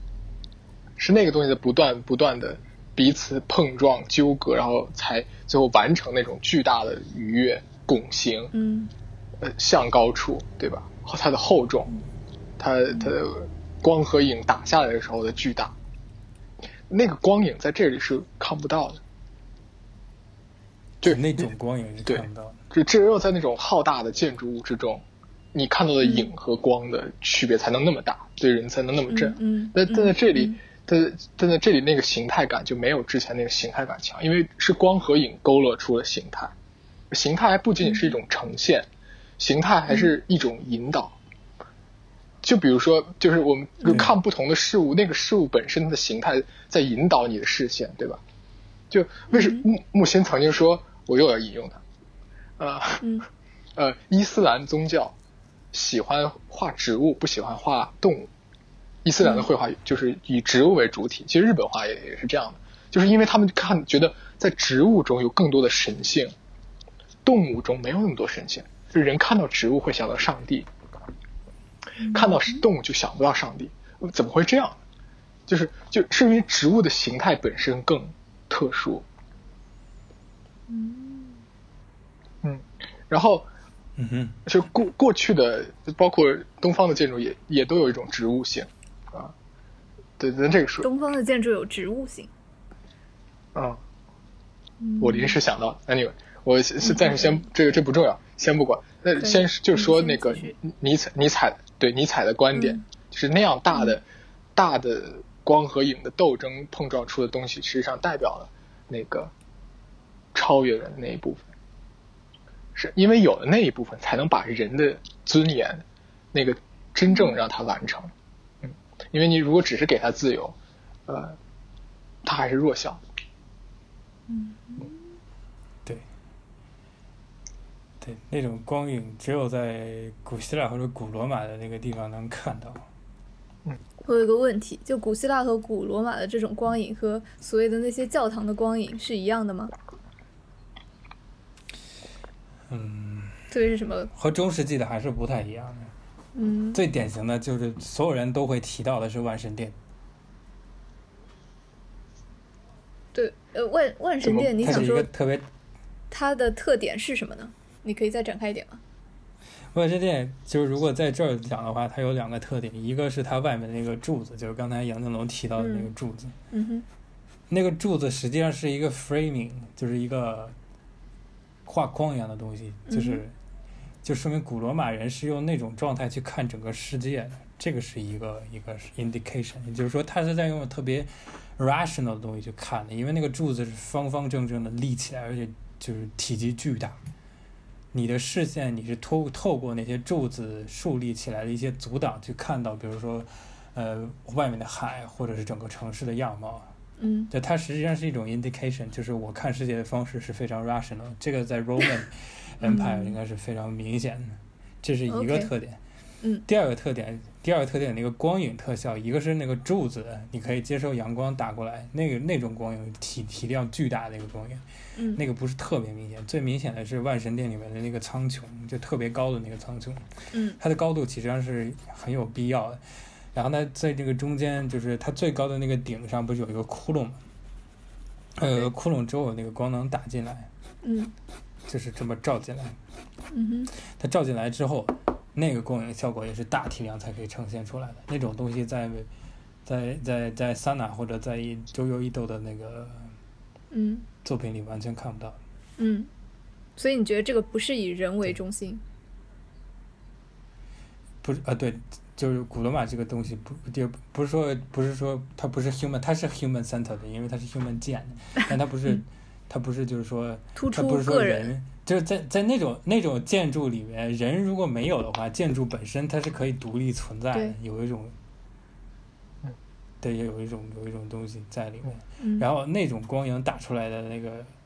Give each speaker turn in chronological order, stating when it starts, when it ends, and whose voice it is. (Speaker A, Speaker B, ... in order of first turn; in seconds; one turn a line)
Speaker A: 1.0-8.5
Speaker B: 8.5-8.9
Speaker A: 9.4-11.9
Speaker A: 12.6-15.8
Speaker B: 12.9-13.2
Speaker A: 16.9-19.0
Speaker A: 21.0-21.5
Speaker C: 21.0-22.6
Speaker A: 22.1-36.5
Speaker B: 26.0-26.3
Speaker B: 29.1-30.6
Speaker A: 37.1-38.9
Speaker B: 37.8-38.1
Speaker A: 39.4-41.2
Speaker B: 39.9-40.1
Speaker A: 42.4-48.2
Speaker A: 48.9-51.8
Speaker B: 49.3-49.7
Speaker A: 52.6-53.2
Speaker B: 53.0-53.2
Speaker A: 53.8-55.1
Speaker A: 55.7-58.3
Speaker A: 59.0-66.3
Speaker B: 59.2-59.5
Speaker A: 67.2-70.7
Speaker B: 72.0-72.6
Speaker A: 72.1-74.8
Speaker A: 75.5-79.0
Speaker B: 80.7-81.4
Speaker A: 82.4-83.5
Speaker C: 84.0-84.4
Speaker A: 84.5-89.3
Speaker A: 90.2-90.9
Speaker B: 90.8-92.3
Speaker A: 93.5-93.8
Speaker B: 94.8-95.4
Speaker A: 95.0-104.0
Speaker B: 96.8-97.4
Speaker B: 99.2-100.5
Speaker B: 102.5-102.8
Speaker B: 103.7-104.0
Speaker A: 104.6-109.3
Speaker A: 110.3-111.5
Speaker A: 112.8-118.1
Speaker B: 117.1-117.4
Speaker A: 118.6-120.6
Speaker A: 121.1-121.4
Speaker A: 122.2-123.0
Speaker B: 124.3-125.0
Speaker C: 128.0-132.9
Speaker B: 134.0-139.7
Speaker C: 142.7-143.5
Speaker B: 143.5-144.1
Speaker C: 144.1-145.9
Speaker B: 146.3-146.8
Speaker C: 146.7-149.8
Speaker B: 153.1-155.1
Speaker A: 154.2-154.9
Speaker C: 154.6-155.5
Speaker B: 156.1-158.8
Speaker C: 159.7-166.3
Speaker B: 165.6-165.9
Speaker B: 166.5-166.9
Speaker C: 167.5-170.5
Speaker C: 171.7-173.3
Speaker B: 172.9-173.2
Speaker C: 174.0-187.0
Speaker C: 187.9-196.7
Speaker B: 197.0-197.3
Speaker C: 197.3-205.8
Speaker B: 202.6-203.2
Speaker B: 205.1-205.5
Speaker C: 206.5-220.1
Speaker B: 215.0-215.2
Speaker B: 220.3-220.6
Speaker C: 220.6-222.8
Speaker C: 223.3-227.2
Speaker C: 228.4-230.5
Speaker B: 230.8-231.1
Speaker C: 231.7-232.8
Speaker B: 233.3-233.7
Speaker C: 233.9-239.1
Speaker C: 239.6-243.1
Speaker B: 243.7-244.1
Speaker C: 244.2-245.4
Speaker B: 245.8-246.1
Speaker B: 246.8-248.8
Speaker C: 251.2-268.1
Speaker B: 260.6-261.5
Speaker C: 270.0-274.5
Speaker B: 272.2-272.5